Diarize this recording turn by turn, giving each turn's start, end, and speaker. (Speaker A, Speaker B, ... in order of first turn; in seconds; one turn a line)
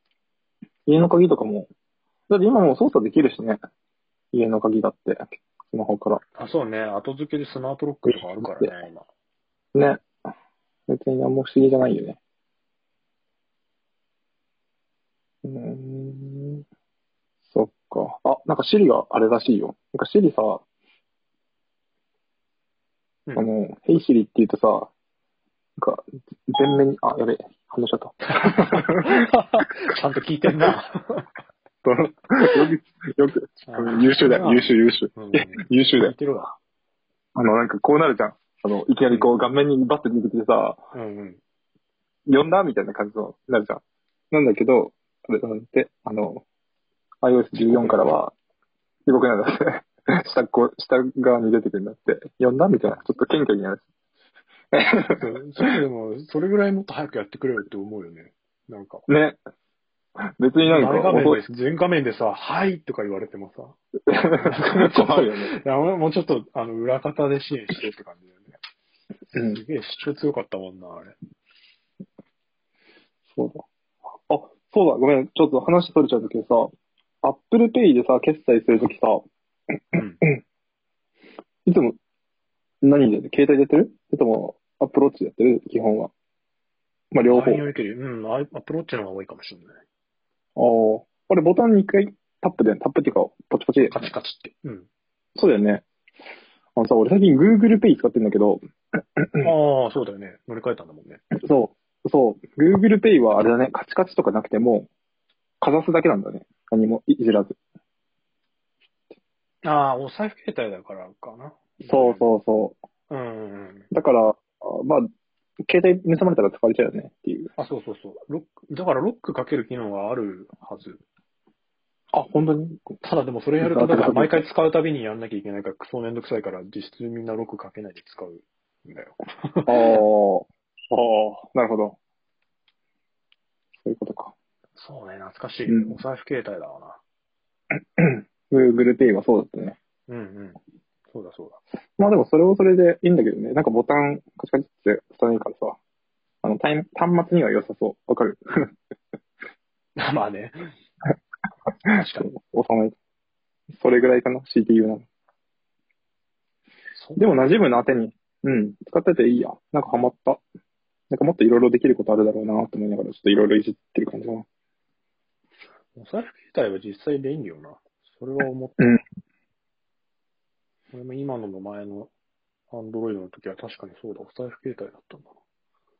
Speaker A: 0.9-1.7
Speaker A: 2.3-3.6
Speaker A: 4.3-6.2
Speaker B: 6.4-9.1
Speaker A: 8.1-8.7
Speaker A: 9.7-10.0
Speaker A: 10.9-12.2
Speaker A: 15.4-16.6
Speaker A: 17.5-20.6
Speaker A: 23.4-24.9
Speaker A: 25.8-29.1
Speaker B: 28.3-31.3
Speaker A: 31.8-36.1
Speaker B: 33.6-36.5
Speaker A: 37.3-40.8
Speaker B: 40.9-41.4
Speaker A: 42.3-46.4
Speaker A: 47.2-48.3
Speaker B: 47.6-48.1
Speaker A: 49.0-53.8
Speaker A: 54.7-55.3
Speaker B: 55.1-59.0
Speaker A: 59.1-59.4
Speaker A: 60.4-61.5
Speaker B: 60.6-63.8
Speaker A: 64.1-65.5
Speaker B: 64.4-68.5
Speaker B: 69.3-71.1
Speaker A: 69.3-69.6
Speaker A: 73.3-73.6
Speaker A: 74.3-79.2
Speaker A: 79.9-80.4
Speaker B: 79.9-80.2
Speaker A: 81.7-82.0
Speaker A: 82.8-86.1
Speaker A: 87.1-87.6
Speaker B: 87.2-89.7
Speaker A: 90.6-94.1
Speaker B: 93.9-94.9
Speaker A: 95.3-95.8
Speaker A: 96.8-98.6
Speaker A: 99.2-99.5
Speaker B: 99.4-101.2
Speaker A: 101.4-104.9
Speaker A: 105.6-107.6
Speaker B: 109.6-112.3
Speaker A: 111.8-112.8
Speaker B: 113.1-113.9
Speaker A: 113.9-115.1
Speaker A: 115.7-117.5
Speaker B: 117.6-121.0
Speaker A: 122.1-123.0
Speaker B: 123.0-130.0
Speaker A: 123.6-124.4
Speaker A: 129.7-132.0
Speaker A: 133.8-134.3
Speaker B: 134.8-137.0
Speaker A: 135.7-135.9
Speaker A: 137.9-139.8
Speaker B: 140.1-140.6
Speaker B: 141.1-141.6
Speaker A: 142.0-145.8
Speaker A: 146.4-148.7
Speaker B: 150.0-150.7
Speaker B: 151.8-152.3
Speaker A: 151.8-152.9
Speaker A: 153.8-155.0
Speaker B: 156.9-157.4
Speaker A: 157.2-160.4
Speaker A: 161.1-164.4
Speaker B: 165.9-169.0
Speaker B: 170.9-172.1
Speaker B: 172.7-175.3